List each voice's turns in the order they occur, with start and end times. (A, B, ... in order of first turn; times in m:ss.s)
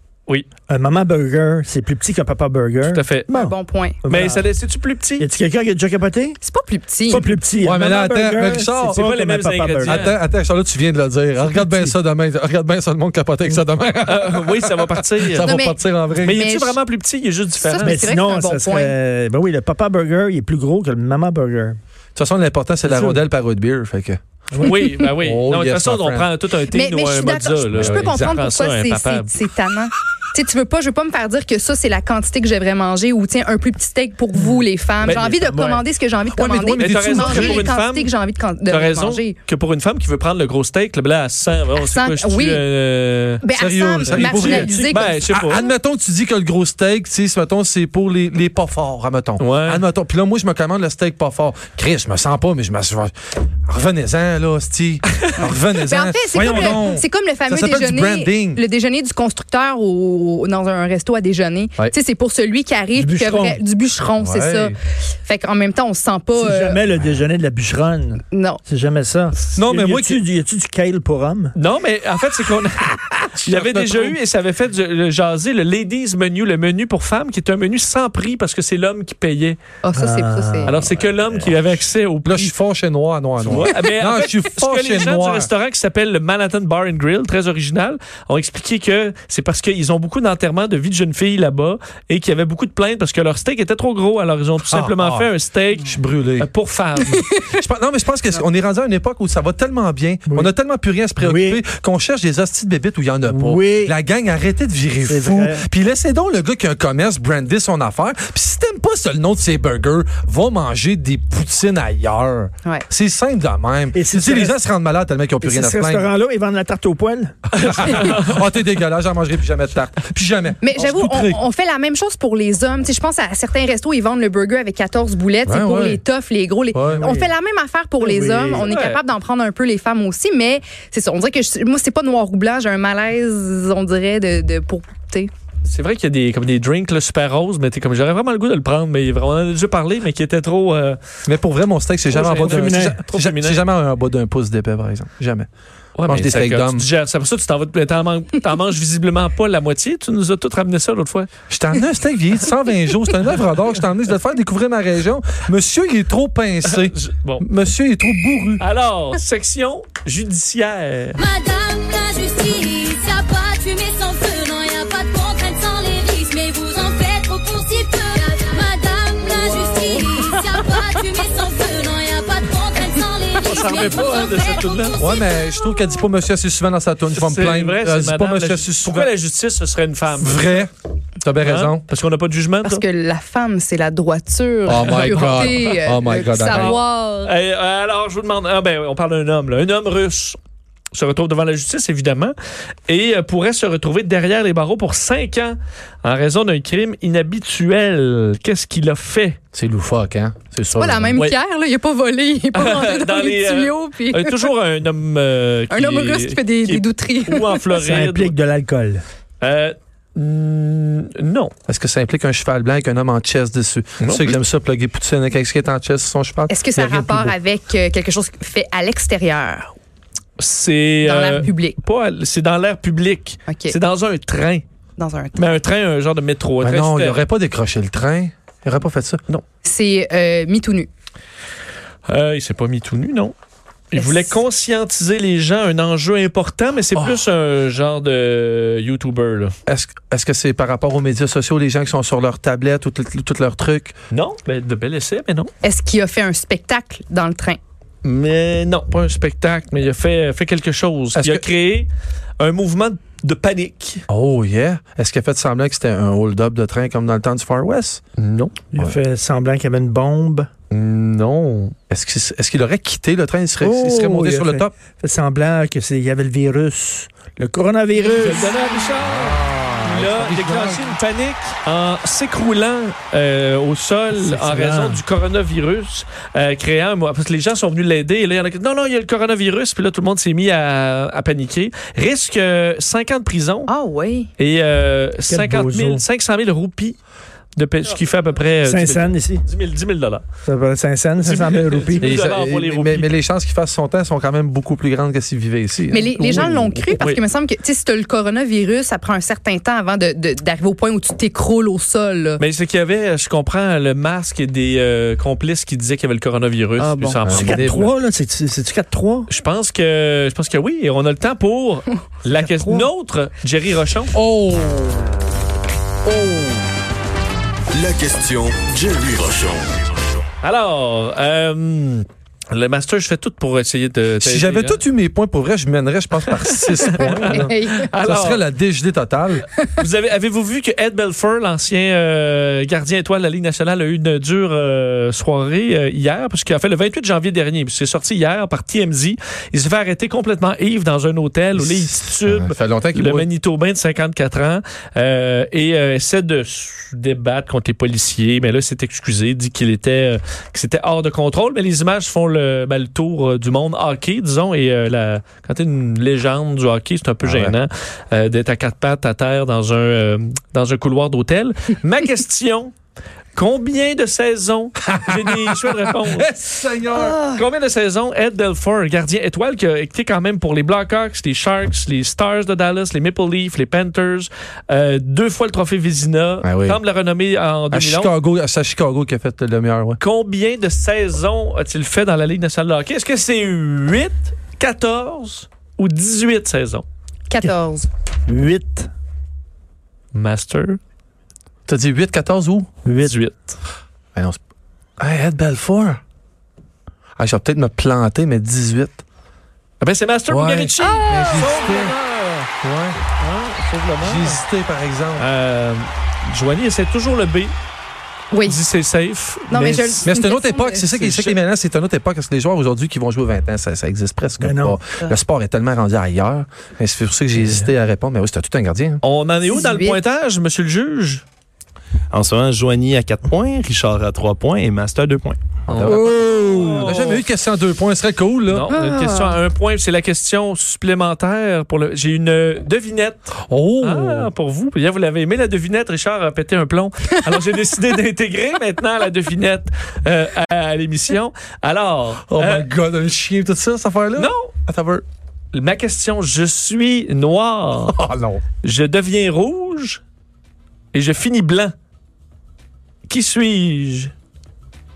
0:00.7-0:04.5 A
0:02.8-0:03.3 B
0:03.3-0:04.0 C
0:04.0-0:05.3 B
0:05.2-0:06.4 A
0:06.4-0:07.3 C
0:07.0-0:10.0 A
0:07.6-0:09.0 D
0:08.8-0:10.2 B
0:09.9-0:16.4 D
0:11.4-0:11.9 A
0:14.0-0:15.5 B
0:15.3-0:16.8 C
0:16.2-0:18.0 B
0:17.6-0:19.0 C
0:17.8-0:21.8 A
0:22.2-0:26.3 D
0:22.8-0:23.2 A
0:24.5-0:25.1 A
0:24.6-0:29.3 B
0:26.7-0:39.4 C
0:27.7-0:28.4 D
0:35.0-0:35.8 B
0:36.3-0:37.7 D
0:36.8-0:38.1 B
0:38.7-0:43.4 B
0:41.8-0:42.6 C
0:43.4-0:45.2 C
0:43.6-0:58.6 D
0:44.1-0:45.7 B
0:44.3-0:44.9 A
0:49.4-0:49.8 B
0:55.4-1:06.8 C
1:03.0-1:03.6 A
1:04.2-1:04.8 D
1:06.3-1:11.6 A
1:08.3-1:08.6 C
1:09.5-1:10.2 D
1:11.6-1:12.9 B
1:12.9-1:14.2 D
1:13.4-1:19.6 B
1:19.8-1:20.8 C
1:20.0-1:20.9 A
1:20.6-1:22.5 B
1:21.5-1:25.5 D
1:23.4-1:37.2 B
1:34.7-1:36.5 D
1:37.1-1:37.6 C
1:37.5-1:56.1 D
1:40.3-1:40.5 A
1:41.2-1:41.6 A
1:43.3-1:44.0 A
1:45.0-1:45.7 A
1:53.9-1:54.6 A
1:55.4-1:57.4 A
1:57.5-2:01.4 D
1:57.6-1:58.4 B
2:00.6-2:15.3 C
2:05.5-2:06.0 D
2:06.7-2:07.2 D
2:06.9-2:07.3 A
2:08.0-2:08.7 A
2:08.6-2:09.0 B
2:15.6-2:21.0 B
2:21.3-2:25.5 D
2:22.1-2:23.6 B
2:22.4-2:23.0 A
2:26.0-2:31.3 B
2:26.1-2:26.9 D
2:31.5-2:38.6 D
2:36.6-2:37.4 B
2:38.6-2:41.2 B
2:41.2-2:55.5 E
2:49.7-2:50.8 B
2:53.4-2:55.1 B
2:55.0-2:59.1 D
2:57.1-3:00.6 B
3:00.2-3:00.7 D
3:01.2-3:01.8 D
3:01.4-3:02.8 B
3:02.6-3:07.3 C
3:04.7-3:06.8 D
3:04.7-3:10.4 B
3:10.9-3:12.4 B
3:12.9-3:19.4 B
3:19.5-3:21.2 D
3:20.8-3:24.5 C
3:22.6-3:28.4 B
3:25.7-3:27.7 C
3:27.7-3:29.0 A
3:29.4-3:31.5 B
3:31.7-3:37.4 D
3:34.0-3:34.4 B
3:36.5-3:39.8 C
3:40.4-3:44.6 B
3:41.0-3:41.8 C
3:43.5-3:43.8 C
3:45.0-3:45.4 C
3:45.4-3:47.2 B
3:46.6-3:49.2 D
3:49.6-3:50.9 C
3:52.1-3:53.3 B
3:53.9-3:59.5 B
3:53.9-3:54.4 C
3:59.7-4:04.0 D
4:04.1-4:05.5 B
4:05.6-4:07.6 C
4:08.0-4:14.0 B
4:11.2-4:11.4 D
4:14.1-4:18.0 D
4:18.2-4:18.6 B
4:18.7-4:20.5 A
4:20.7-4:21.8 B
4:21.9-4:24.8 D
4:23.6-4:28.6 A
4:28.0-4:43.7 B
4:29.0-4:30.9 D
4:34.1-4:35.0 A
4:43.7-4:44.3 C
4:44.4-4:47.0 B
4:45.3-4:46.0 A
4:47.6-4:50.2 B
4:48.6-4:49.5 A
4:50.5-4:52.1 A
4:51.2-4:53.2 B
4:52.0-4:56.8 D
4:55.9-5:02.4 C
5:02.4-5:07.9 B
5:06.8-5:09.3 A
5:07.2-5:07.9 D
5:09.3-5:14.1 B
5:12.3-5:12.9 A
5:14.1-5:15.2 D
5:17.7-5:19.8 F
5:20.4-5:24.8 B
5:24.2-5:29.5 D
5:26.4-5:28.4 B
5:26.9-5:27.9 C
5:29.8-6:02.7 B
5:41.6-5:43.3 D
5:57.2-5:57.6 D
6:03.3-6:06.4 B
6:04.9-6:07.3 D
6:07.0-6:07.4 C
6:07.3-6:18.1 B
6:16.4-6:16.8 D
6:17.7-6:20.0 D
6:20.0-6:26.8 B
6:27.3-6:27.9 C
6:28.3-6:28.9 A
6:30.1-6:30.8 B
6:31.7-6:32.7 D
6:32.8-6:33.2 A
6:33.0-6:33.6 B
6:35.0-6:36.0 D
6:37.2-6:39.0 D
6:39.8-6:42.5 B
6:40.3-6:42.0 D
6:40.8-6:41.4 C
6:42.6-6:43.0 D
6:43.2-6:44.4 B
6:44.0-6:45.2 D
6:45.2-6:47.6 B
6:48.3-6:48.6 C
6:48.4-6:50.1 B
6:49.5-6:51.0 C
6:50.0-6:59.0 D
6:51.0-6:51.4 B
6:54.4-6:54.8 A
6:59.0-7:01.2 B
6:59.5-7:00.0 C
7:02.1-7:05.4 G
7:05.7-7:07.2 B
7:05.7-7:08.7 D
7:08.5-7:22.7 B
7:08.7-7:09.4 C
7:13.5-7:14.3 D
7:22.3-7:25.0 D
7:24.2-7:24.5 B
7:25.5-7:28.0 B
7:27.9-7:28.4 D
7:28.6-7:30.0 B
7:30.9-7:31.7 B
7:33.1-7:34.1 B